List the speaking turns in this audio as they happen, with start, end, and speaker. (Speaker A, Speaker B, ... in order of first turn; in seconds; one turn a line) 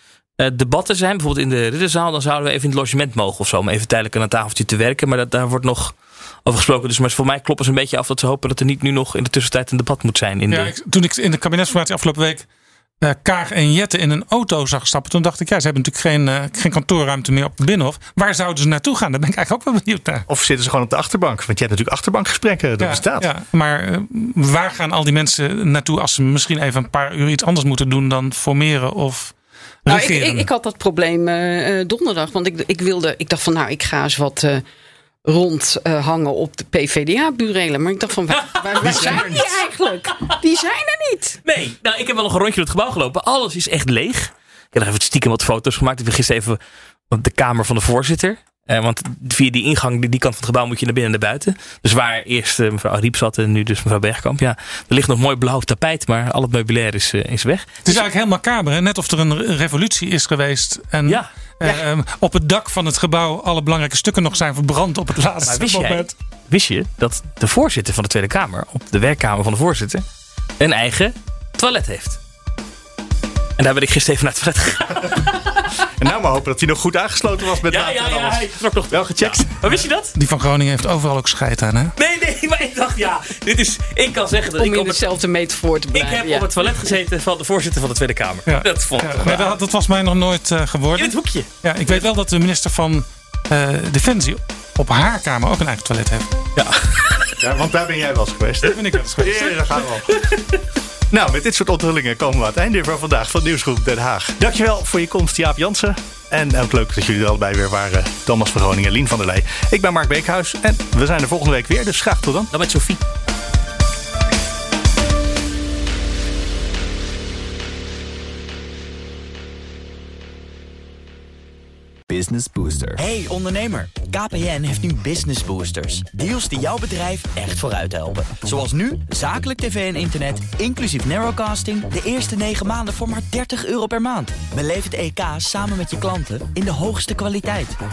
Speaker A: 0.4-10.7
Speaker B: 10.5-12.4
Speaker B: 13.0-20.3
Speaker C: 20.3-23.3
Speaker B: 22.8-30.5
Speaker D: 29.9-34.6
Speaker D: 35.2-41.4
Speaker A: 38.4-39.3
Speaker C: 38.8-39.5
Speaker A: 41.4-46.6
Speaker A: 47.1-58.0
Speaker B: 57.9-66.1
Speaker A: 65.4-70.0
Speaker A: 70.6-72.2
Speaker A: 73.6-75.9
Speaker C: 75.9-79.6
Speaker A: 77.6-80.2
Speaker B: 80.1-81.9
Speaker A: 82.0-85.0
Speaker D: 84.6-86.8
Speaker A: 85.9-89.5
Speaker B: 88.5-96.3
Speaker A: 91.0-92.1
Speaker A: 96.5-97.4
Speaker C: 97.4-100.1
Speaker B: 98.6-99.6
Speaker A: 100.0-100.6
Speaker C: 101.1-112.5
Speaker A: 112.5-113.0
Speaker E: 122.1-137.8